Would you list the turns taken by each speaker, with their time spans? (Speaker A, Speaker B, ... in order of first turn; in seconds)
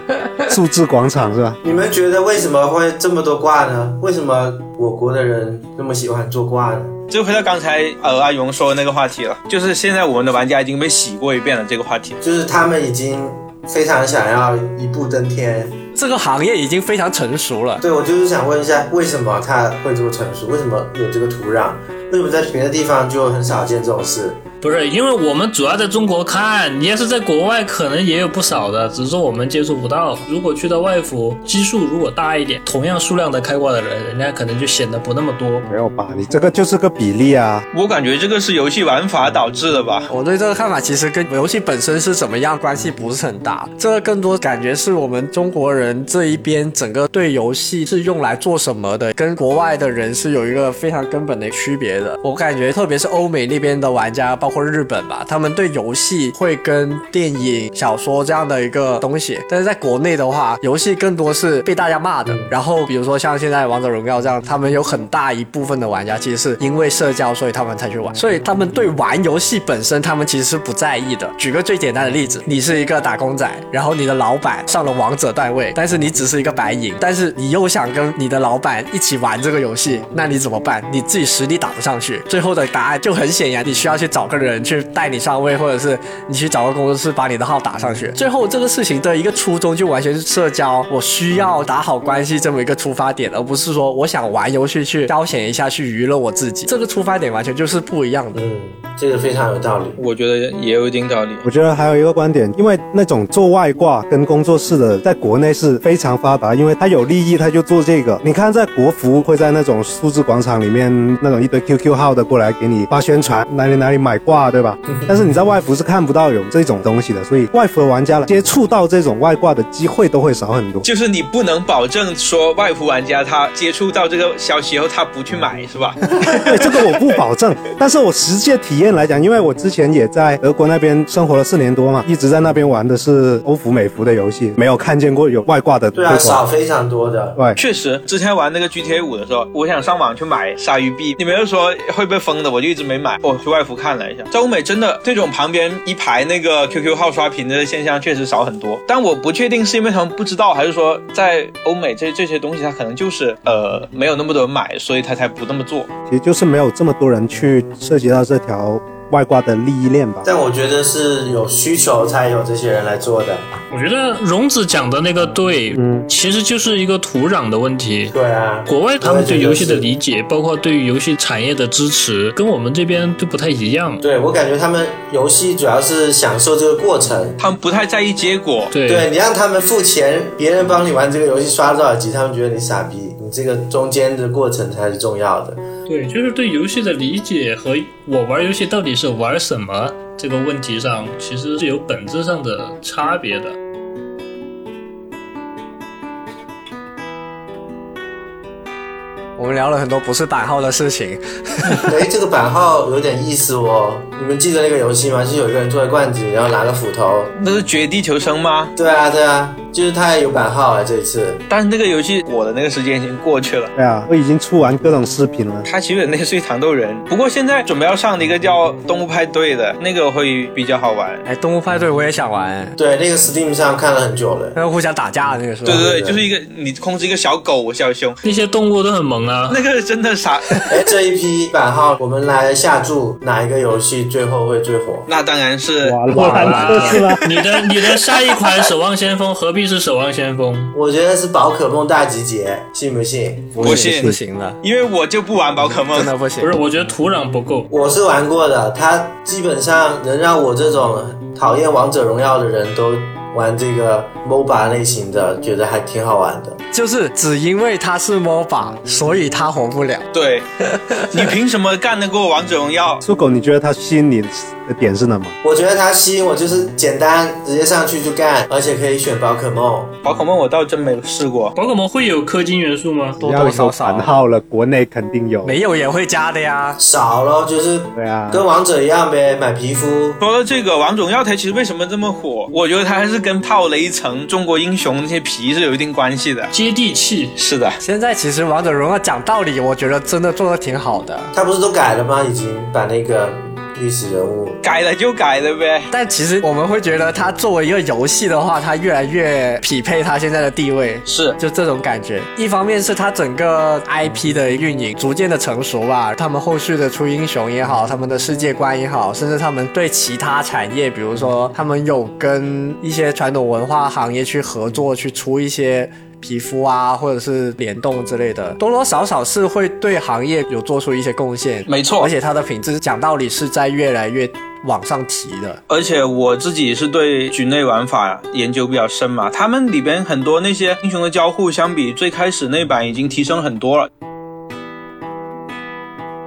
Speaker A: 0.5-1.6, 35.7-37.6, 101.4-120.8, 126.3-136.4, 156.1-160.2, 165.7-166.1, 213.7-215.7, 235.8-237.2, 243.5-244.2, 263.0-265.3, 273.2-275.6, 277.9-278.4
Speaker B: 1.6-7.0, 12.2-15.8, 17.8-24.4, 98.3-100.0, 135.9-137.4, 160.2-163.4, 168.1-169.9, 174.0-177.4, 178.8-185.6, 201.9-207.3, 208.8-211.4, 222.8-224.6, 225.7-226.2, 230.7-235.1, 236.2-236.9, 240.7-243.6, 247.7-256.6, 265.4-269.9, 276.8-280.2, 291.3-294.6
Speaker C: 7.1-12.2, 37.7-40.1, 100.0-101.4, 120.8-127.0, 137.6-155.9, 177.4-178.7, 207.3-208.7, 211.5-213.7, 215.7-221.2, 225.6-228.2, 229.5-230.7, 235.1-236.1, 243.6-246.1, 260.1-260.4, 261.0-263.0, 270.0-271.5, 280.2-286.5, 287.3-287.8, 294.6-295.9, 301.0-301.4, 321.7-322.1, 325.7-333.9
Speaker D: 15.9-17.8, 40.1-98.4, 199.4-201.9, 221.2-222.7, 224.5-225.9, 243.6-244.6, 245.6-246.6, 256.7-260.1, 260.9-261.2, 273.2-274.2, 275.4-276.8, 287.8-291.3, 295.9-325.6
Speaker E: 24.6-35.7, 163.7-168.1, 168.7-174.0, 178.7-179.1, 185.9-193.5, 228.2-229.6, 236.1-240.7, 246.4-247.7, 271.5-273.2, 286.5-287.4